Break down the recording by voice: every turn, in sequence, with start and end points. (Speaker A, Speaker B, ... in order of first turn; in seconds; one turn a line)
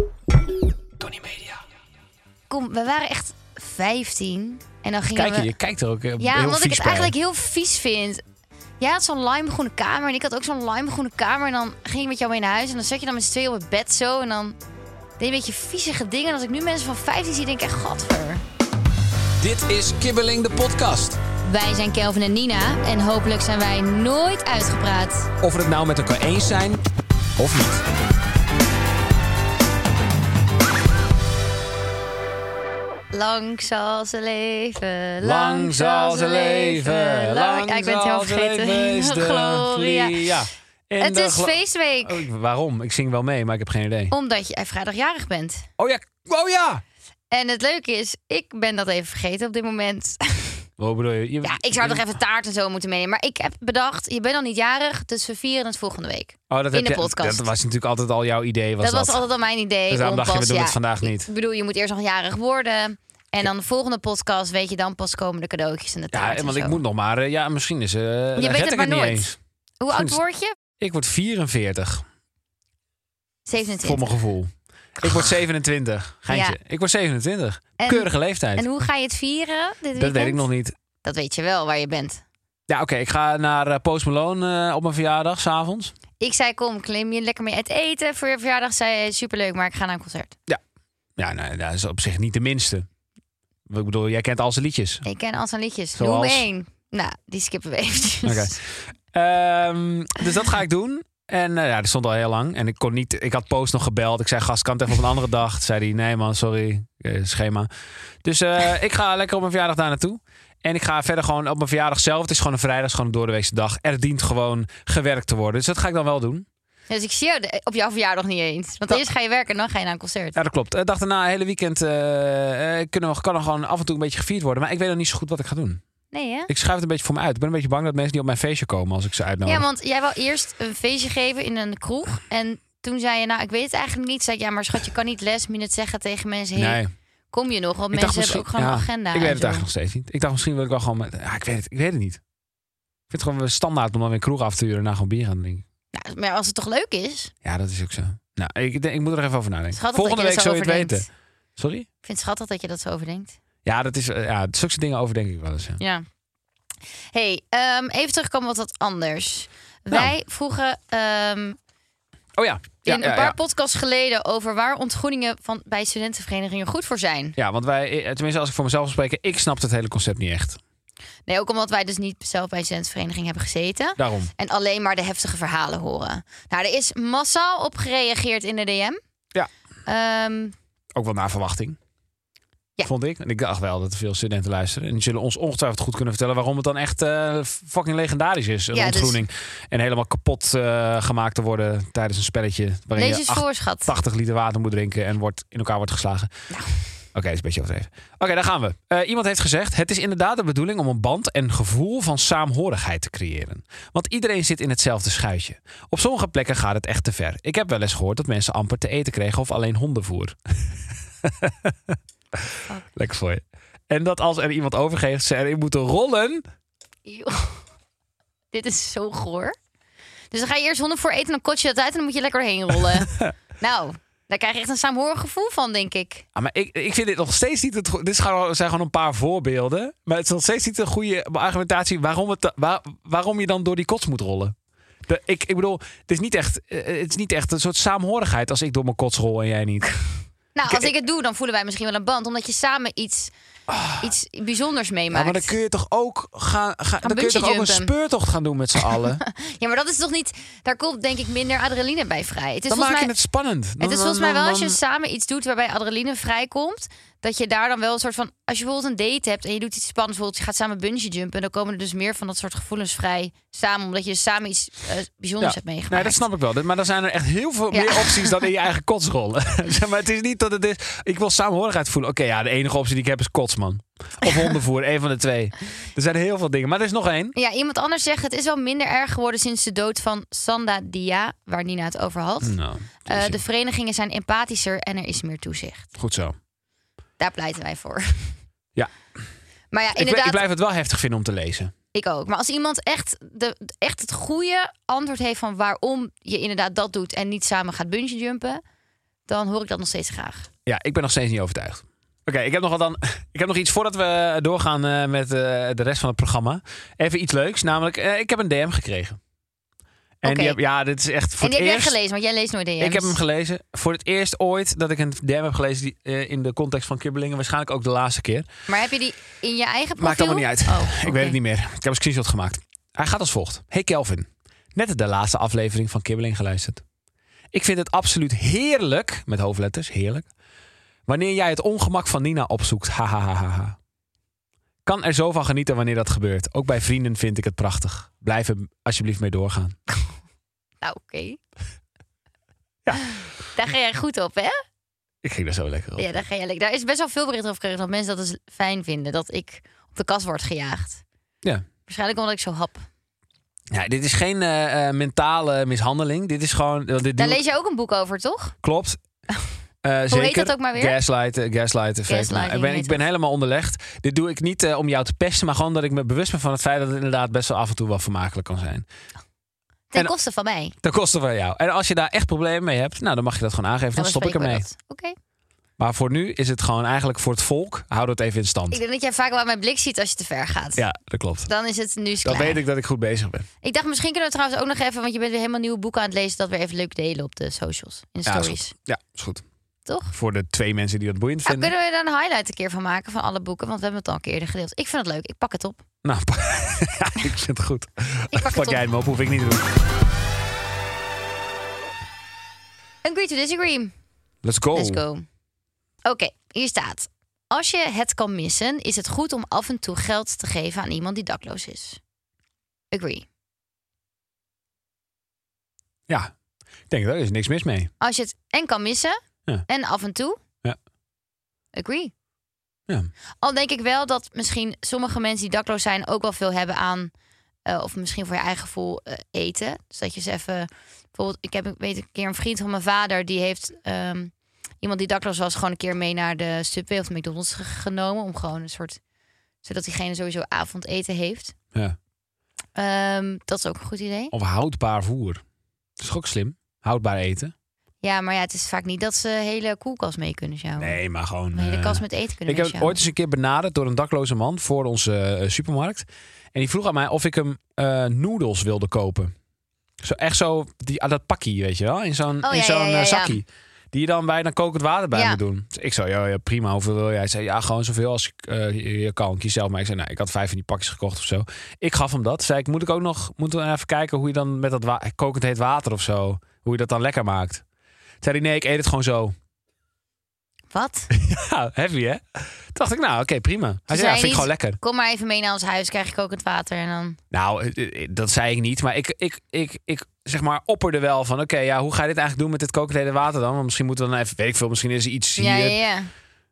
Speaker A: 1.0-1.6
Speaker B: 2.5-5.5
Speaker A: 5.1-7.1
Speaker B: 6.2-8.2
Speaker B: 8.8-14.6
Speaker B: 15.2-18.4
Speaker A: 19.4-21.2
Speaker B: 21.4-25.3
Speaker A: 25.4-26.8
Speaker A: 27.4-27.9
Speaker B: 33.1-40.3
Speaker A: 35.2-44.1
Speaker B: 41.0-42.2
Speaker B: 44.1-45.7
Speaker A: 45.8-46.8
Speaker B: 47.3-50.6
Speaker A: 50.8-52.0
Speaker B: 51.4-57.5
Speaker A: 56.5-59.2
Speaker B: 58.8-66.8
Speaker A: 59.9-61.3
Speaker A: 66.1-69.4
Speaker B: 68.4-70.5
Speaker A: 69.9-70.2
Speaker A: 70.8-72.1
Speaker B: 73.5-74.0
Speaker A: 73.8-78.7
Speaker B: 75.0-75.3
Speaker B: 76.3-76.6
Speaker B: 77.8-80.5
Speaker A: 80.0-80.8
Speaker B: 81.0-82.2
Speaker A: 82.7-85.9
Speaker B: 86.2-90.3
Speaker A: 91.2-92.9
Speaker A: 93.7-95.0
Speaker B: 95.0-98.5
Speaker A: 95.9-96.5
Speaker A: 98.2-98.6
Speaker A: 99.1-107.7
Speaker A: 108.2-116.5
Speaker B: 116.9-120.3
Speaker A: 120.3-125.8
Speaker B: 126.1-126.5
Speaker A: 126.5-129.7
Speaker B: 129.5-136.8
Speaker A: 136.6-136.9
Speaker B: 137.3-139.7
Speaker A: 137.9-142.2
Speaker A: 143.1-145.7
Speaker B: 145.9-147.3
Speaker A: 147.4-151.1
Speaker B: 149.7-151.1
Speaker A: 151.6-151.9
Speaker B: 152.0-153.4
Speaker A: 153.7-155.8
Speaker B: 155.8-156.1
Speaker B: 157.1-161.6
Speaker A: 162.4-163.3
Speaker B: 162.8-167.4
Speaker A: 167.4-170.6
Speaker B: 171.3-179.0
Speaker A: 174.0-174.3
Speaker B: 179.8-180.6
Speaker A: 181.0-181.8
Speaker A: 182.8-196.3
Speaker B: 188.7-189.2
Speaker B: 192.9-193.9
Speaker B: 196.5-196.8
Speaker A: 197.1-216.4
Speaker B: 217.1-217.7
Speaker B: 218.5-219.6
Speaker B: 220.3-226.2
Speaker A: 222.9-223.3
Speaker A: 226.3-234.6
Speaker A: 235.1-240.0
Speaker B: 240.6-243.3
Speaker A: 243.7-244.1
Speaker B: 244.0-245.5
Speaker A: 245.1-249.2
Speaker B: 247.0-247.9
Speaker B: 248.9-253.1
Speaker A: 252.7-254.8
Speaker B: 253.8-266.2
Speaker A: 265.4-277.4
Speaker B: 267.7-268.4
Speaker B: 277.4-285.9
Speaker A: 282.4-283.4
Speaker A: 286.0-286.4
Speaker B: 287.2-288.4
Speaker B: 289.7-290.4
Speaker A: 289.9-291.7
Speaker B: 291.9-298.6
Speaker B: 299.3-300.5
Speaker A: 300.7-309.2
Speaker A: 310.2-311.9
Speaker B: 310.2-310.6
Speaker B: 311.4-313.2
Speaker A: 312.8-318.5
Speaker B: 318.7-321.4
Speaker A: 320.0-326.8
Speaker A: 327.5-330.3
Speaker A: 331.1-333.8
Speaker A: 334.9-339.8
Speaker B: 340.8-341.4
Speaker A: 342.9-343.1
Speaker B: 343.1-344.6
Speaker A: 345.2-346.1
Speaker B: 346.0-351.0
Speaker B: 351.9-352.9
Speaker A: 353.7-357.4
Speaker B: 357.2-358.6
Speaker A: 358.6-359.0
Speaker A: 359.8-368.9
Speaker B: 360.1-361.0
Speaker B: 362.1-363.0
Speaker B: 369.9-370.8
Speaker A: 370.8-374.7
Speaker B: 373.9-375.2
Speaker A: 375.8-378.8
Speaker B: 378.7-380.8
Speaker A: 380.8-381.5
Speaker B: 381.5-382.6
Speaker A: 382.2-383.5
Speaker B: 383.6-388.7
Speaker A: 388.2-389.4
Speaker B: 389.9-390.1
Speaker A: 390.1-391.7
Speaker B: 391.4-395.8
Speaker A: 396.0-399.7
Speaker B: 398.3-398.8
Speaker B: 403.0-403.9
Speaker A: 404.4-405.0
Speaker B: 404.7-405.2
Speaker B: 406.1-412.0
Speaker B: 412.9-413.2
Speaker A: 416.9-417.9
Speaker B: 418.0-419.2
Speaker B: 419.7-420.4
Speaker B: 421.7-422.1
Speaker B: 423.4-427.1
Speaker B: 427.7-439.0
Speaker B: 439.6-441.6
Speaker B: 442.8-444.3
Speaker A: 444.3-445.4
Speaker A: 446.0-447.5
Speaker B: 448.0-451.0
Speaker A: 450.8-459.3
Speaker B: 451.5-452.9
Speaker A: 460.0-477.6
Speaker B: 462.4-463.4
Speaker B: 465.1-465.4
Speaker A: 478.2-479.4
Speaker B: 480.7-481.1
Speaker A: 481.1-484.8
Speaker B: 483.9-487.2
Speaker A: 487.3-495.8
Speaker B: 495.4-496.1